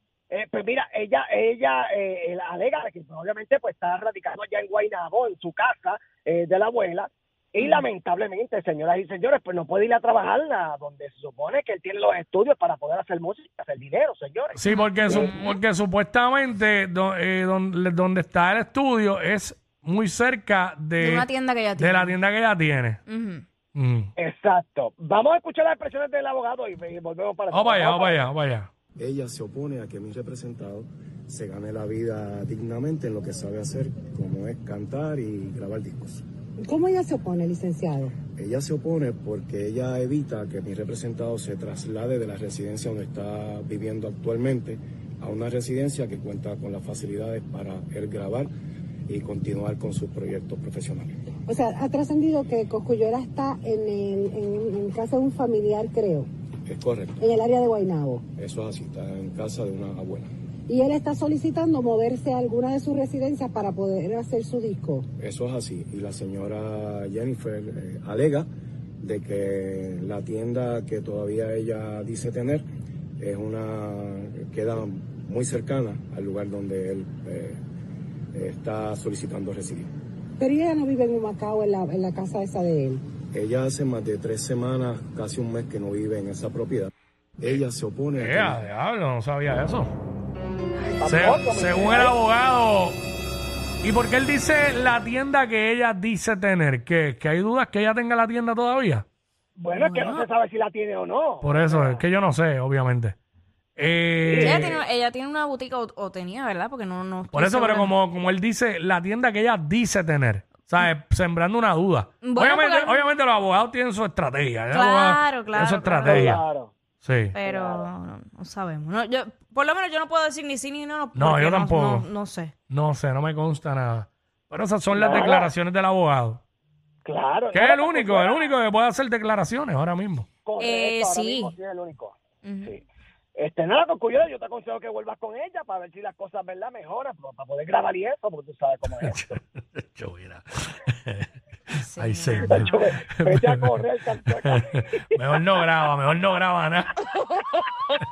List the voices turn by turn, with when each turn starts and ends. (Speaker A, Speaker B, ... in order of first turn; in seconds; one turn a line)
Speaker A: 0.3-15.3
Speaker B: 14.6-21.3
Speaker C: 21.0-21.9
Speaker B: 21.8-23.0
Speaker C: 23.1-23.4
Speaker B: 23.8-24.1
Speaker A: 24.2-28.3
Speaker B: 27.5-28.7
Speaker D: 29.0-36.2
Speaker E: 36.6-38.1
Speaker D: 38.3-48.5
Speaker D: 49.1-51.2
Speaker E: 51.5-56.3
Speaker D: 56.7-57.3
Speaker E: 57.2-58.3
Speaker D: 58.4-60.3
Speaker E: 60.7-65.1
Speaker D: 65.2-68.5
Speaker D: 69.0-72.7
Speaker D: 73.2-77.6
Speaker D: 78.3-79.9
Speaker E: 80.4-83.0
Speaker D: 83.3-88.6
Speaker B: 88.2-89.9
Speaker A: 90.8-92.2
Speaker B: 91.1-93.0
Speaker B: 93.8-99.0
Speaker A: 99.6-102.0
Speaker C: 99.8-100.3
Speaker B: 101.4-103.2
Speaker B: 103.8-104.8
Speaker A: 104.2-104.8
Speaker C: 104.5-107.9
Speaker B: 107.3-116.4
Speaker C: 112.2-113.0
Speaker C: 114.8-116.0
Speaker A: 115.9-116.7
Speaker B: 117.0-117.4
Speaker C: 117.3-122.5
Speaker A: 117.4-117.9
Speaker B: 121.2-122.1
Speaker B: 122.7-126.4
Speaker A: 124.9-125.5
Speaker A: 127.0-128.6
Speaker B: 127.5-130.3
Speaker A: 130.4-132.8
Speaker C: 130.6-131.5
Speaker C: 132.4-132.7
Speaker A: 133.4-139.4
Speaker B: 138.9-143.8
Speaker C: 142.0-142.7
Speaker A: 142.4-145.4
Speaker B: 144.3-147.0
Speaker A: 147.4-147.8